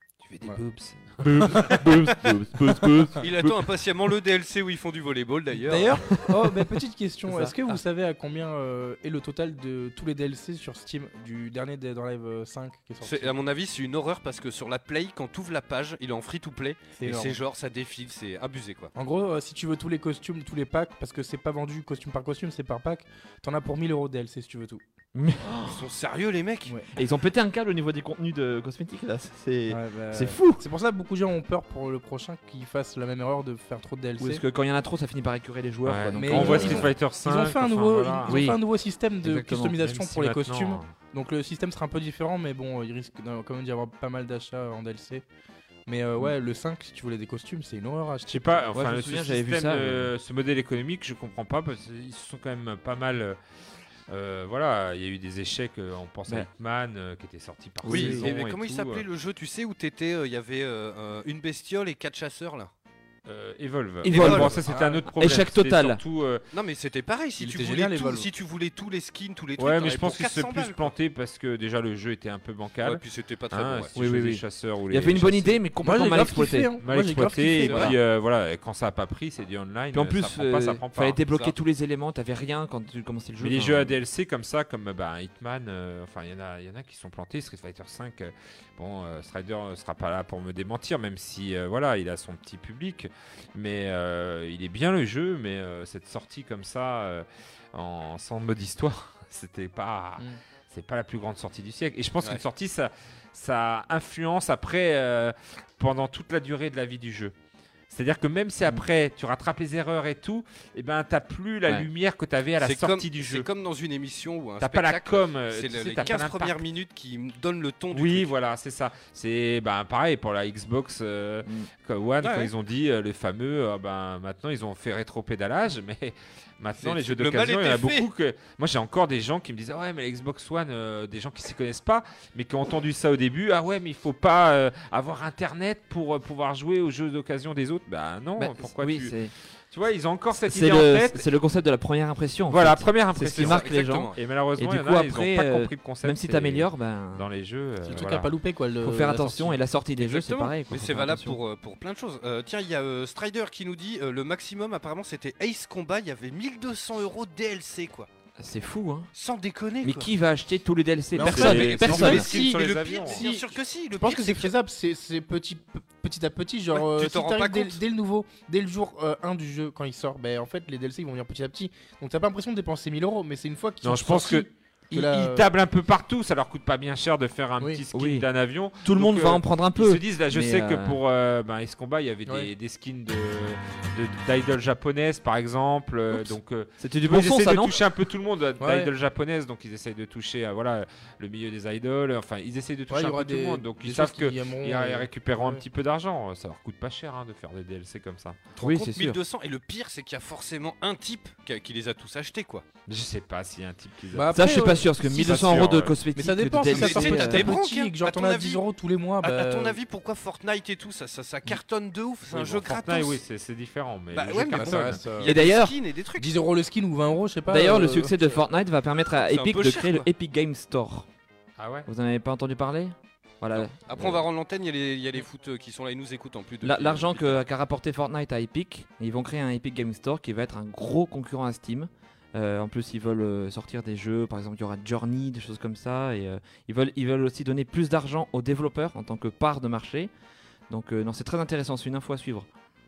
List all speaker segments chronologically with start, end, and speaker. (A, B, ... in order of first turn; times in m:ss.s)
0:00.2-0:02.0 A
0:01.2-0:03.5 B
0:01.5-0:03.2 C
0:03.2-0:06.0 D
0:05.5-0:13.3 C
0:07.3-0:07.6 B
0:13.0-0:18.9 D
0:17.0-0:17.4 C
0:19.0-0:24.8 C
0:25.2-0:25.9 B
0:25.7-0:26.8 D
0:26.7-0:26.9 C
0:26.9-0:30.6 B
0:29.7-0:34.4 C
0:34.2-0:36.9 B
0:35.8-0:38.5 A
0:36.2-0:45.2 C
0:38.3-0:38.6 B
0:39.2-0:39.8 B
0:39.8-0:40.9 A
0:45.9-0:48.6 C
0:48.3-0:53.4 A
0:48.7-0:50.1 B
0:54.1-0:59.1 A
0:57.8-0:58.4 B
0:57.9-1:02.7 D
1:03.3-1:06.4 A
1:04.0-1:06.0 B
1:04.1-1:04.5 D
1:04.7-1:05.1 C
1:06.5-1:10.9 D
1:07.4-1:08.3 C
1:09.6-1:15.6 A
1:12.8-1:13.9 D
1:14.0-1:16.7 B
1:15.8-1:17.9 C
1:16.8-1:21.2 A
1:17.6-1:18.0 B
1:19.9-1:24.0 B
1:21.3-1:21.6 D
1:23.4-1:47.4 A
1:47.9-1:53.5 A
1:52.6-1:58.3 D
1:54.6-1:56.7 A
1:57.9-2:19.2 A
2:02.2-2:02.5 D
2:06.8-2:08.1 D
2:18.4-2:19.3 B
2:19.7-2:21.3 A
2:20.4-2:27.3 B
2:22.5-2:28.3 A
2:23.3-2:24.2 D
2:27.8-2:29.6 C
2:28.8-2:31.4 B
2:30.0-2:38.1 D
2:38.4-2:39.1 B
2:39.2-2:40.1 D
2:39.8-2:42.3 B
2:41.2-2:55.5 C
2:41.2-2:43.3 A
2:41.2-2:44.5 D
2:46.7-2:47.8 D
2:53.8-3:18.4 A
2:57.9-2:58.3 B
2:58.8-3:01.0 B
3:06.8-3:07.7 B
3:08.6-3:08.9 C
3:12.9-3:15.6 C
3:18.5-3:22.6 D
3:18.6-3:19.2 B
3:22.9-3:26.0 A
3:24.1-3:29.8 C
3:24.3-3:27.5 B
3:26.7-3:28.6 D
3:29.2-3:33.2 D
3:32.3-3:35.0 A
3:34.1-3:36.3 D
3:34.3-3:35.3 C
3:35.2-3:35.8 B
3:36.2-3:38.4 C
3:37.5-3:41.1 B
3:39.3-3:40.1 D
3:41.6-3:41.9 A
3:41.9-3:44.2 B
3:43.5-3:47.4 D
3:46.6-4:00.1 B
4:00.7-4:02.5 B